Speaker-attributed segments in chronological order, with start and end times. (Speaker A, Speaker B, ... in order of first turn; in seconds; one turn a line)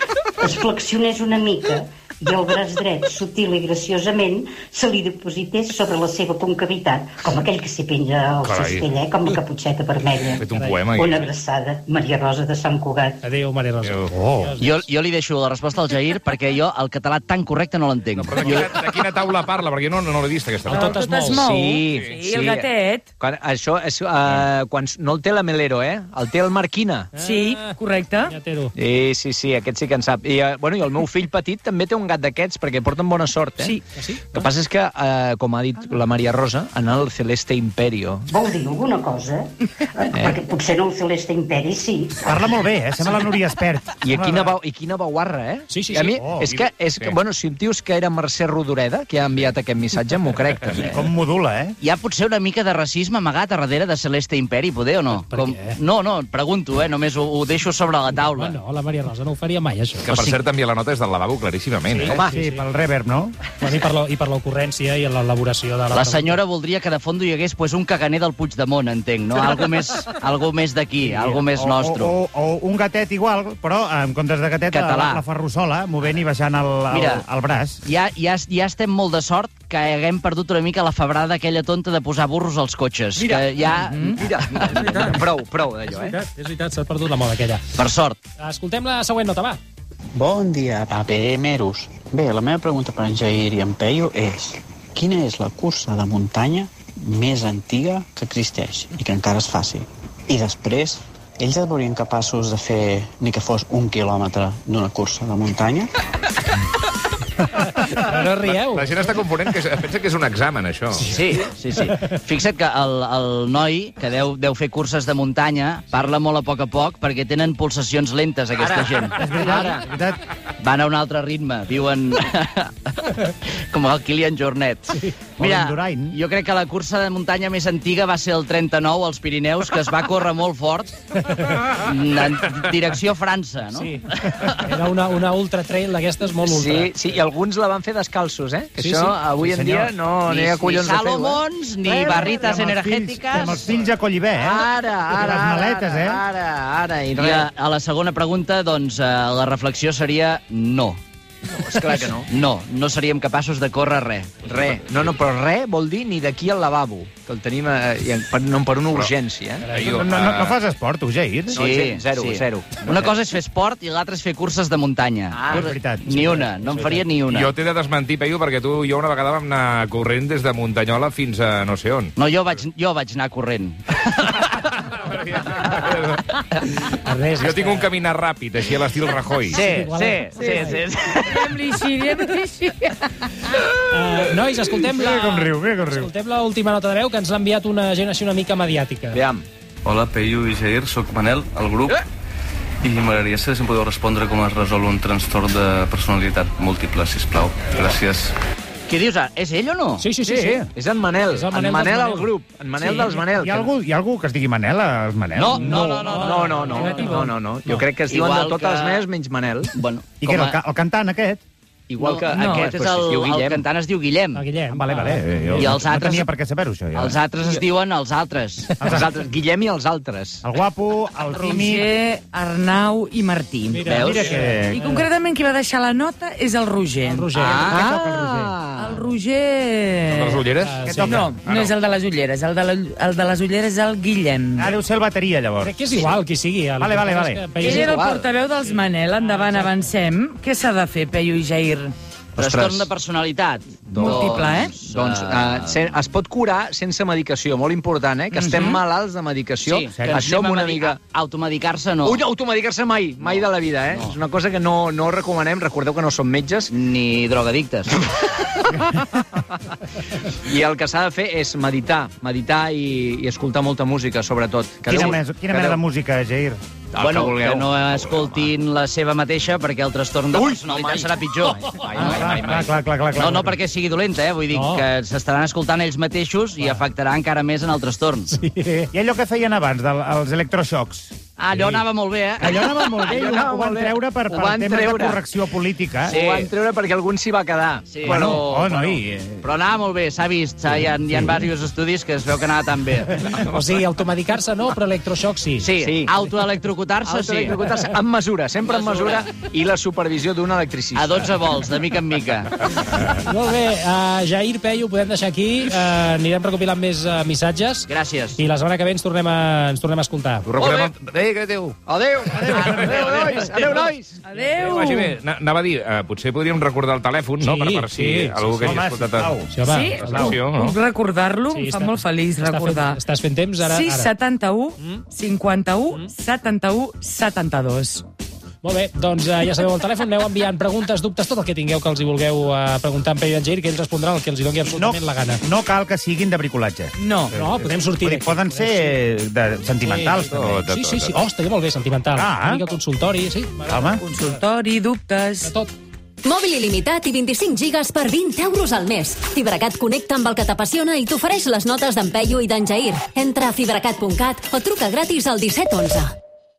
Speaker A: 0.4-10.4
Speaker B: 8.4-8.9
Speaker B: 10.4-11.3
Speaker C: 10.5-10.8
Speaker A: 10.9-13.2
Speaker C: 13.2-14.9
Speaker B: 13.8-14.1
Speaker D: 14.1-14.5
Speaker E: 14.6-18.8
Speaker B: 18.1-20.9
Speaker C: 20.6-21.4
Speaker F: 20.7-23.1
Speaker G: 21.2-27.1
Speaker B: 21.9-22.2
Speaker C: 27.1-28.7
Speaker F: 27.2-28.4
Speaker G: 28.8-33.8
Speaker C: 33.9-34.4
Speaker G: 34.3-38.2
Speaker A: 38.3-42.4
Speaker D: 42.2-44.5
Speaker G: 44.0-51.0
Speaker C: 45.7-46.2
Speaker D: 46.1-46.5
Speaker B: 46.4-47.2
Speaker D: 50.8-51.7
Speaker E: 51.8-58.6
Speaker C: 55.2-55.8
Speaker C: 58.1-60.1
Speaker B: 60.0-62.2
Speaker E: 60.1-60.4
Speaker C: 61.9-62.6
Speaker D: 62.2-63.3
Speaker C: 63.6-66.4
Speaker E: 65.9-72.1
Speaker D: 71.5-77.8
Speaker E: 74.7-75.2
Speaker E: 76.9-77.2
Speaker E: 77.8-84.3
Speaker G: 83.2-86.2
Speaker F: 83.8-84.2
Speaker C: 84.8-85.2
Speaker C: 85.9-87.6
Speaker E: 87.8-88.2
Speaker C: 88.4-89.6
Speaker H: 90.1-105.9
Speaker C: 107.8-109.0
Speaker B: 108.6-111.1
Speaker E: 111.0-119.2
Speaker G: 118.6-119.8
Speaker D: 119.2-120.2
Speaker E: 120.6-130.9
Speaker D: 125.4-126.2
Speaker E: 131.8-134.5
Speaker C: 133.7-136.9
Speaker G: 136.4-142.3
Speaker C: 138.8-139.9
Speaker E: 140.2-143.7
Speaker D: 142.0-146.2
Speaker G: 144.3-147.5
Speaker E: 147.1-151.0
Speaker G: 151.4-152.3
Speaker E: 152.3-154.5
Speaker G: 154.4-159.7
Speaker B: 159.6-160.6
Speaker D: 159.8-161.6
Speaker E: 161.5-167.5
Speaker G: 161.5-163.1
Speaker G: 165.3-165.7
Speaker D: 165.5-166.4
Speaker B: 167.3-172.6
Speaker E: 172.2-174.0
Speaker B: 174.6-176.3
Speaker C: 177.0-177.9
Speaker B: 177.4-179.6
Speaker C: 179.5-180.8
Speaker E: 179.5-181.6
Speaker F: 180.4-180.7
Speaker F: 181.2-183.6
Speaker C: 183.8-189.2
Speaker D: 184.9-186.1
Speaker G: 189.1-189.4
Speaker I: 189.8-192.0
Speaker I: 192.8-198.3
Speaker E: 198.9-200.1
Speaker C: 200.0-200.7
Speaker G: 200.2-203.7
Speaker D: 200.4-200.7
Speaker C: 201.3-203.2
Speaker D: 203.4-206.1
Speaker E: 205.3-207.2
Speaker C: 205.6-207.8
Speaker G: 206.1-209.7
Speaker E: 208.1-209.0
Speaker E: 209.7-210.6
Speaker D: 210.2-211.4
Speaker G: 211.9-213.6
Speaker E: 212.0-214.4
Speaker F: 212.3-212.7
Speaker C: 214.3-215.8
Speaker D: 214.7-217.2
Speaker E: 215.6-216.3
Speaker E: 216.9-218.7
Speaker D: 218.8-219.1
Speaker G: 218.9-220.4
Speaker D: 220.4-221.9
Speaker F: 221.3-227.3
Speaker C: 223.7-225.1
Speaker E: 223.8-224.3
Speaker D: 223.9-224.9
Speaker C: 227.0-227.7
Speaker E: 227.3-227.8
Speaker D: 227.7-228.5
Speaker G: 227.7-229.0
Speaker F: 228.8-230.5
Speaker B: 230.1-231.7
Speaker C: 230.6-231.3
Speaker D: 230.8-231.3
Speaker F: 231.0-234.8
Speaker D: 234.6-235.9
Speaker C: 235.6-237.9
Speaker D: 236.8-237.6
Speaker F: 237.6-241.9
Speaker G: 237.6-238.3
Speaker C: 239.2-239.8
Speaker G: 242.3-242.9
Speaker E: 242.4-245.7
Speaker G: 243.9-251.0
Speaker F: 244.0-244.7
Speaker F: 248.3-248.8
Speaker E: 249.6-252.2
Speaker D: 249.9-250.2
Speaker G: 252.0-256.7
Speaker E: 253.2-254.2
Speaker E: 256.7-258.0
Speaker G: 260.4-265.8
Speaker D: 264.9-266.6
Speaker G: 266.9-268.4
Speaker E: 267.0-272.6
Speaker G: 270.3-272.7
Speaker D: 271.9-273.6
Speaker E: 273.1-278.3
Speaker C: 274.5-274.9
Speaker C: 278.3-278.9
Speaker D: 278.9-281.1
Speaker E: 281.4-282.6
Speaker D: 282.4-286.1
Speaker G: 283.0-285.2
Speaker E: 286.0-286.5
Speaker G: 286.1-288.4
Speaker E: 287.9-293.1
Speaker D: 288.0-289.4
Speaker C: 293.3-295.6
Speaker E: 295.6-297.6
Speaker G: 295.8-296.1
Speaker G: 297.0-301.3
Speaker E: 298.6-299.3
Speaker E: 300.9-302.5
Speaker C: 302.7-310.4
Speaker E: 307.9-308.4
Speaker B: 310.4-311.8
Speaker E: 310.6-310.9
Speaker G: 311.8-314.1
Speaker D: 312.3-313.5
Speaker B: 312.6-313.5
Speaker F: 314.2-315.2
Speaker B: 314.6-319.4
Speaker C: 317.4-318.8
Speaker D: 318.6-319.5
Speaker C: 319.5-320.4
Speaker F: 319.6-323.0
Speaker B: 320.0-320.8
Speaker D: 320.0-320.3
Speaker C: 321.5-324.1
Speaker F: 323.6-328.0
Speaker C: 328.6-335.4
Speaker D: 334.7-340.4
Speaker F: 337.0-337.3
Speaker C: 337.3-339.0
Speaker C: 339.7-344.4
Speaker B: 340.3-341.2
Speaker D: 342.1-342.6
Speaker D: 343.6-344.0
Speaker F: 344.0-345.5
Speaker C: 345.4-345.7
Speaker J: 346.2-356.1